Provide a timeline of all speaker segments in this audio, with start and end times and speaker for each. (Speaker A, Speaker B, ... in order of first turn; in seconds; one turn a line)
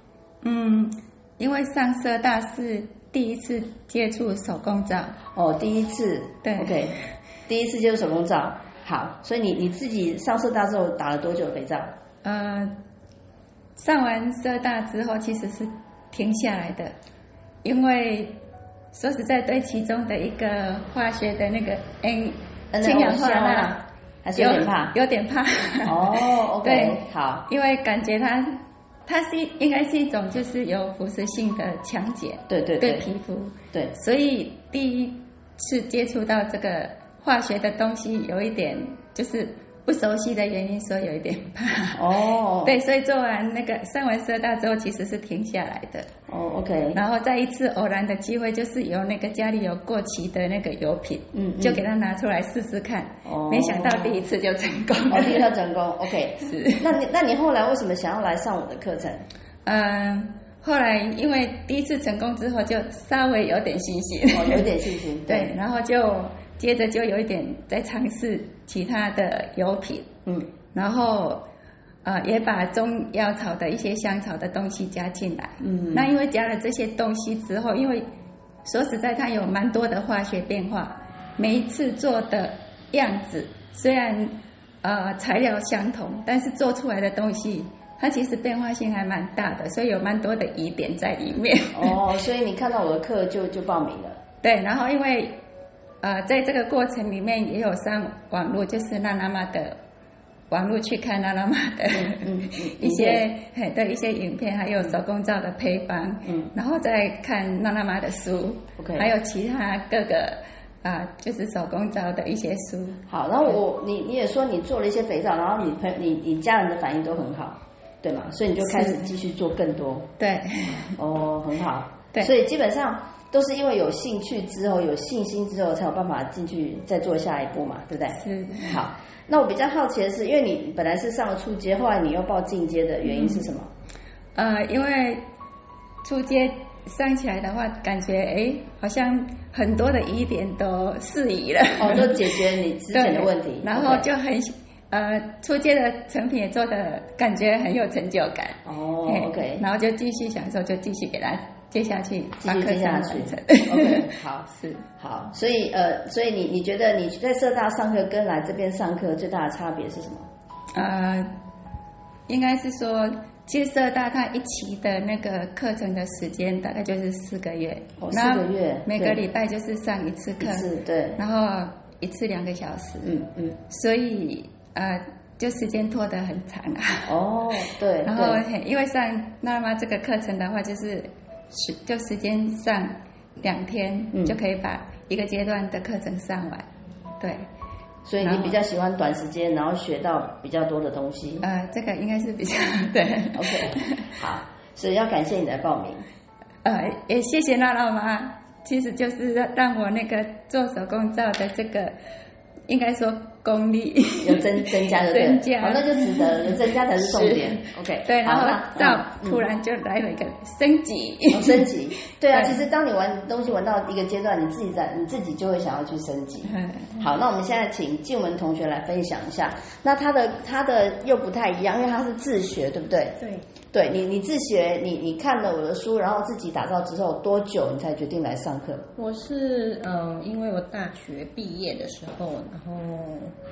Speaker A: 0.4-5.2
Speaker B: 5.3-11.9
Speaker A: 6.4-6.9
Speaker A: 12.2-12.7
Speaker A: 13.8-16.9
Speaker A: 17.6-18.4
Speaker A: 18.9-23.8
Speaker B: 22.7-24.9
Speaker A: 24.4-42.0
Speaker B: 25.8-27.5
Speaker B: 32.5-33.1
Speaker B: 41.9-42.7
Speaker A: 42.6-46.1
Speaker B: 46.3-47.0
Speaker A: 46.9-55.5
Speaker B: 51.3-51.8
Speaker B: 53.2-54.2
Speaker B: 55.1-59.2
Speaker A: 56.4-56.9
Speaker A: 59.6-64.7
Speaker B: 64.3-65.5
Speaker A: 65.3-70.1
Speaker A: 70.7-71.4
Speaker A: 72.0-78.0
Speaker B: 75.6-76.1
Speaker A: 78.6-92.0
Speaker B: 91.7-94.2
Speaker A: 94.4-95.3
Speaker A: 96.0-99.8
Speaker A: 100.5-113.0
Speaker B: 101.9-103.2
Speaker B: 106.2-106.5
Speaker B: 108.8-109.1
Speaker B: 113.1-120.1
Speaker A: 118.6-119.1
Speaker A: 120.2-121.0
Speaker B: 121.0-133.7
Speaker A: 128.2-128.8
Speaker A: 133.0-133.4
Speaker A: 134.3-135.2
Speaker A: 136.0-142.4
Speaker B: 141.8-144.1
Speaker A: 142.9-154.8
Speaker B: 148.6-149.6
Speaker B: 152.4-160.3
Speaker A: 160.7-161.3
Speaker A: 162.3-173.2
Speaker B: 168.0-169.2
Speaker B: 170.4-171.2
Speaker B: 173.0-173.6
Speaker A: 173.7-177.1
Speaker B: 177.1-178.4
Speaker A: 178.0-186.7
Speaker A: 187.2-187.4
Speaker B: 188.0-191.4
Speaker A: 188.2-188.6
Speaker A: 191.4-194.2
Speaker B: 193.3-196.0
Speaker A: 196.6-201.9
Speaker A: 202.7-211.7
Speaker B: 204.2-209.4
Speaker B: 211.3-223.2
Speaker A: 216.5-216.9
Speaker C: 223.2-223.5
Speaker B: 223.7-228.9
Speaker C: 229.0-233.3